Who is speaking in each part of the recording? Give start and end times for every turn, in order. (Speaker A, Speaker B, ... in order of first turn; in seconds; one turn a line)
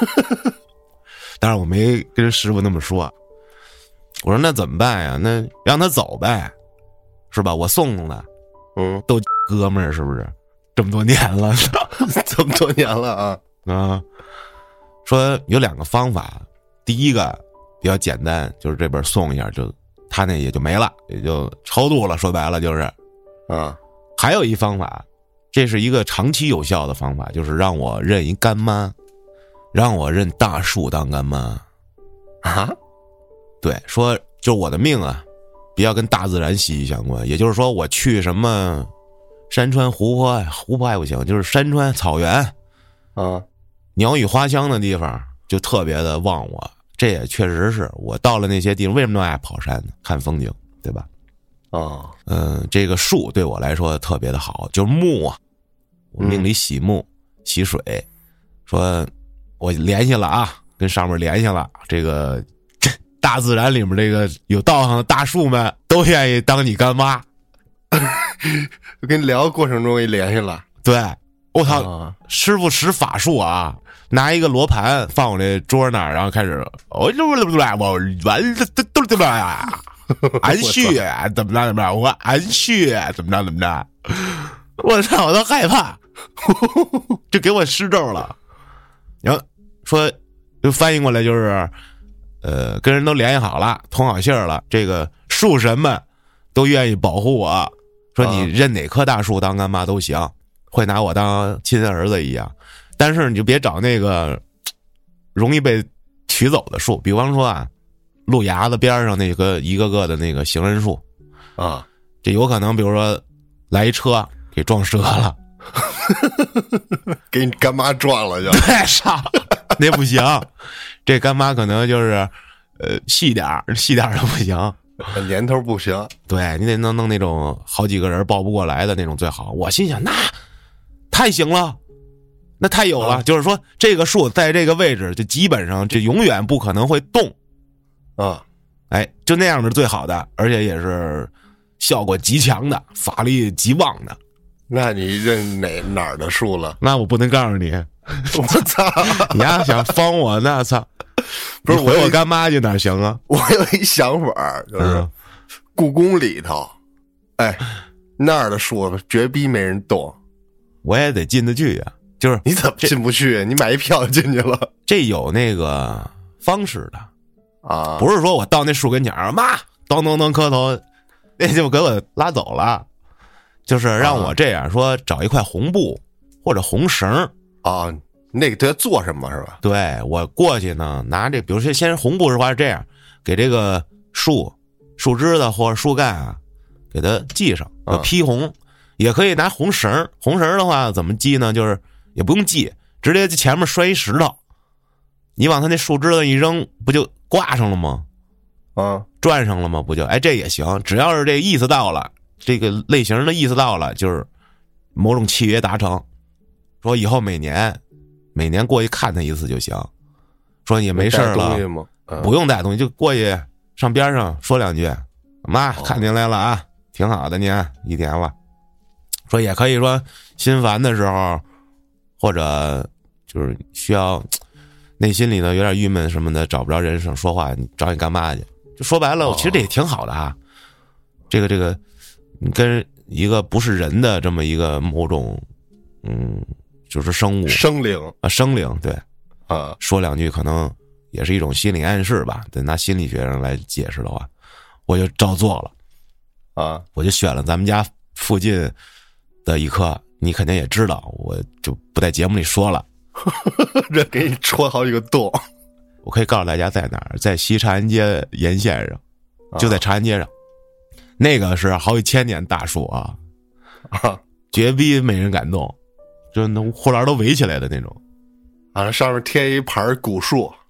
Speaker A: 1.4-3.1
Speaker A: 4.2-6.5
Speaker A: 7.3-8.3
Speaker B: 8.8-9.0
Speaker A: 9.1-12.0
Speaker B: 12.0-13.4
Speaker A: 13.7-14.0
Speaker A: 15.0-22.9
Speaker B: 23.5-23.8
Speaker A: 24.2-28.9
Speaker A: 29.7-31.6
Speaker B: 32.4-32.8
Speaker A: 33.6-35.2
Speaker A: 35.8-38.9
Speaker A: 39.5-42.5
Speaker B: 43.1-43.5
Speaker A: 44.0-51.1
Speaker B: 51.7-52.1
Speaker A: 52.3-55.4
Speaker A: 56.1-58.0
Speaker B: 56.2-56.5
Speaker A: 58.7-67.2
Speaker B: 67.9-70.6
Speaker A: 70.8-86.0
Speaker B: 71.7-72.2
Speaker B: 80.5-81.0
Speaker B: 86.4-87.1
Speaker A: 87.3-88.3
Speaker A: 89.2-91.7
Speaker A: 92.4-96.0
Speaker A: 96.5-104.4
Speaker B: 98.2-98.5
Speaker A: 105.3-107.7
Speaker A: 108.3-111.0
Speaker B: 111.6-111.9
Speaker A: 112.2-115.4
Speaker B: 115.9-118.7
Speaker A: 118.5-120.5
Speaker A: 121.0-124.8
Speaker B: 125.1-126.1
Speaker A: 126.3-130.3
Speaker A: 131.1-131.8
Speaker A: 132.6-137.3
Speaker B: 138.2-138.4
Speaker A: 138.9-144.2
Speaker B: 144.7-146.8
Speaker A: 146.8-150.9
Speaker B: 148.3-149.8
Speaker B: 151.6-152.2
Speaker A: 151.6-153.2
Speaker B: 153.3-155.1
Speaker A: 154.8-155.1
Speaker B: 155.7-156.8
Speaker B: 157.4-157.6
Speaker B: 158.2-160.2
Speaker A: 160.8-162.9
Speaker B: 162.4-164.7
Speaker A: 164.9-167.1
Speaker B: 167.6-168.1
Speaker A: 168.0-170.8
Speaker A: 171.4-172.8
Speaker A: 173.7-177.3
Speaker B: 174.0-174.3
Speaker B: 177.6-179.6
Speaker A: 179.6-186.4
Speaker A: 186.9-194.4
Speaker A: 195.4-198.1
Speaker B: 198.8-199.1
Speaker A: 199.2-204.3
Speaker A: 204.9-206.0
Speaker A: 206.8-207.8
Speaker A: 208.3-209.9
Speaker A: 210.6-211.6
Speaker B: 210.9-212.3
Speaker A: 212.2-218.3
Speaker B: 215.8-216.0
Speaker A: 219.3-221.4
Speaker A: 222.2-224.4
Speaker A: 225.0-230.4
Speaker B: 229.2-229.7
Speaker A: 231.3-231.8
Speaker A: 232.4-235.4
Speaker A: 236.0-237.6
Speaker B: 237.5-238.1
Speaker A: 238.2-239.0
Speaker B: 239.5-239.8
Speaker A: 239.8-244.3
Speaker A: 244.9-245.7
Speaker B: 246.6-246.8
Speaker A: 246.9-248.7
Speaker A: 249.4-252.8
Speaker B: 253.2-255.4
Speaker A: 256.0-259.0
Speaker B: 259.5-259.8
Speaker A: 259.6-260.3
Speaker A: 261.2-263.2
Speaker B: 263.9-264.2
Speaker A: 264.5-265.8
Speaker A: 266.3-268.0
Speaker B: 268.7-270.6